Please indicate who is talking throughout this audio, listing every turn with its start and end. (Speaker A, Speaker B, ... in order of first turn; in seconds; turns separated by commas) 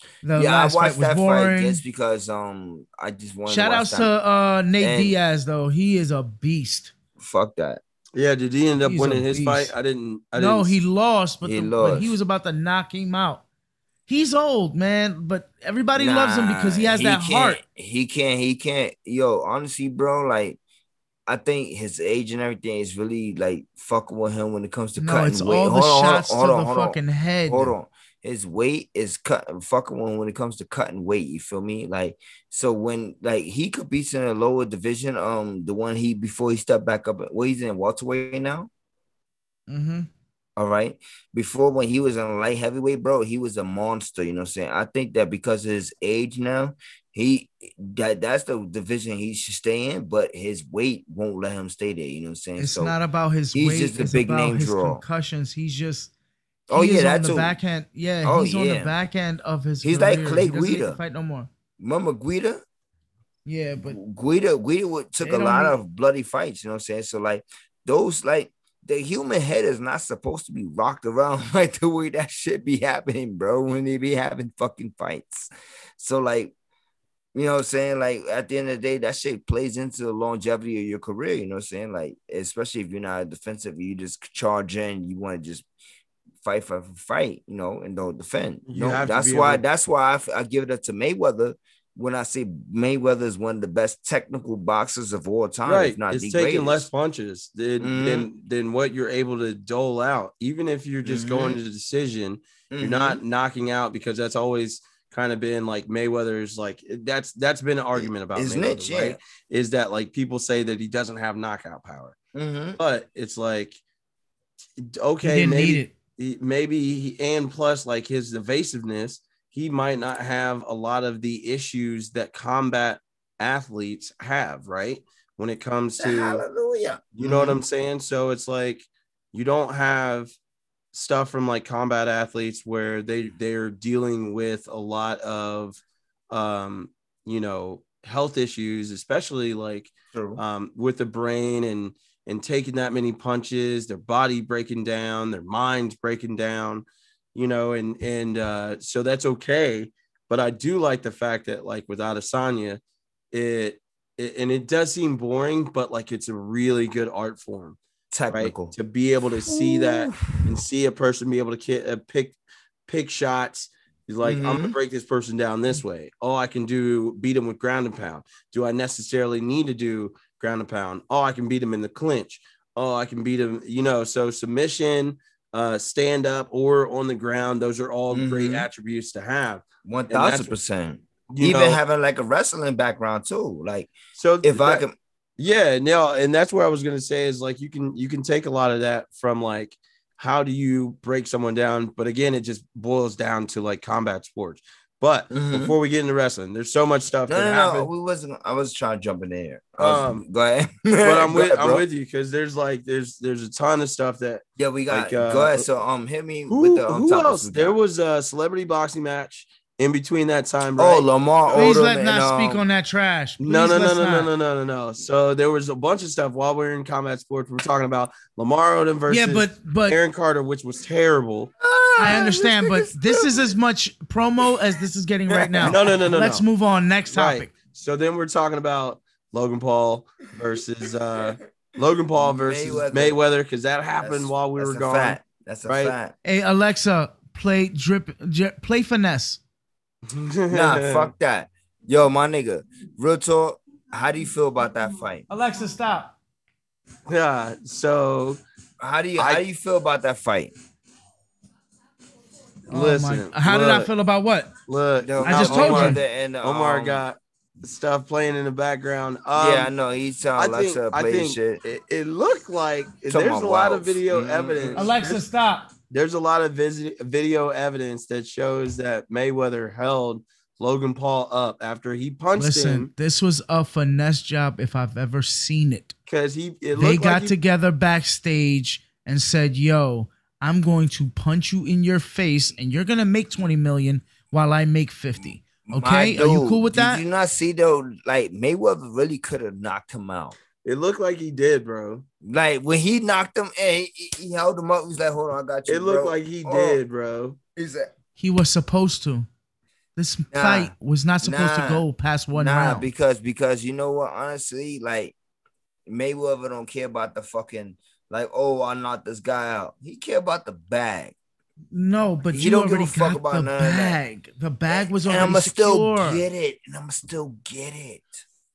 Speaker A: 0.2-1.8, Speaker B: 0.3-4.1, Speaker A: 3.5-6.9, Speaker B: 4.8-5.2, Speaker B: 7.2-7.8, Speaker C: 8.2-10.8, Speaker A: 8.8-9.7, Speaker A: 10.3-13.4, Speaker B: 11.4-12.2, Speaker A: 14.1-17.6, Speaker B: 15.9-20.6, Speaker B: 21.3-38.7, Speaker A: 25.0-27.7, Speaker A: 39.7-40.1, Speaker B: 40.6-52.9, Speaker A: 52.6-56.1, Speaker B: 53.5-55.0, Speaker B: 56.7-57.6, Speaker A: 56.7-61.5, Speaker B: 58.2-58.9, Speaker B: 59.8-61.0, Speaker B: 61.8-62.6, Speaker A: 63.5-64.0, Speaker B: 63.9-76.5, Speaker A: 65.2-65.8, Speaker B: 77.3-85.6, Speaker B: 86.4-96.9, Speaker C: 88.7-89.6, Speaker C: 95.6-112.2, Speaker B: 97.8-98.3, Speaker B: 101.0-101.6, Speaker B: 102.7-103.2, Speaker B: 107.9-109.2, Speaker B: 112.3-112.8, Speaker C: 112.8-113.8, Speaker C: 114.8-126.4, Speaker A: 115.2-115.9, Speaker B: 126.0-127.6, Speaker C: 127.2-130.3, Speaker C: 130.9-152.8, Speaker B: 140.1-140.4, Speaker C: 153.3-157.8, Speaker B: 158.1-158.7, Speaker C: 158.3-180.5, Speaker B: 159.4-160.5, Speaker B: 164.2-164.7, Speaker B: 178.1-178.7, Speaker B: 179.8-184.9, Speaker C: 181.3-181.8, Speaker C: 184.1-184.8, Speaker C: 185.4-197.9, Speaker B: 195.3-195.7, Speaker B: 197.3-201.8, Speaker C: 199.8-200.2, Speaker C: 201.0-205.7, Speaker B: 204.6-207.8, Speaker C: 206.5-211.8, Speaker B: 210.8-212.6, Speaker A: 211.5-214.3, Speaker C: 213.4-221.5, Speaker A: 219.1-220.0, Speaker B: 221.6-223.5, Speaker A: 222.0-227.5, Speaker B: 225.3-226.0, Speaker C: 225.6-226.4, Speaker C: 227.1-235.9, Speaker B: 232.2-233.2, Speaker B: 234.0-236.1, Speaker A: 236.2-239.4, Speaker C: 240.1-241.1, Speaker B: 240.5-245.2, Speaker A: 245.3-246.1, Speaker C: 247.1-248.4, Speaker B: 248.8-250.5, Speaker C: 249.2-249.4, Speaker C: 252.7-253.9, Speaker A: 252.7-254.5, Speaker C: 254.7-259.7, Speaker B: 255.0-257.0, Speaker A: 255.2-256.0, Speaker B: 259.3-261.6, Speaker C: 260.4-265.2, Speaker B: 263.1-264.9, Speaker A: 264.8-265.7, Speaker C: 265.9-272.9, Speaker A: 272.4-275.9, Speaker C: 276.1-277.3, Speaker A: 276.8-287.0, Speaker B: 285.7-290.3, Speaker C: 290.6-292.0, Speaker B: 292.2-296.8, Speaker C: 295.7-297.4, Speaker B: 297.6-297.9, Speaker A: 298.2-299.3, Speaker A: 299.9-302.8, Speaker B: 300.3-305.1, Speaker B: 305.9-311.1, Speaker A: 311.7-316.2, Speaker B: 312.3-314.0, Speaker B: 314.7-318.2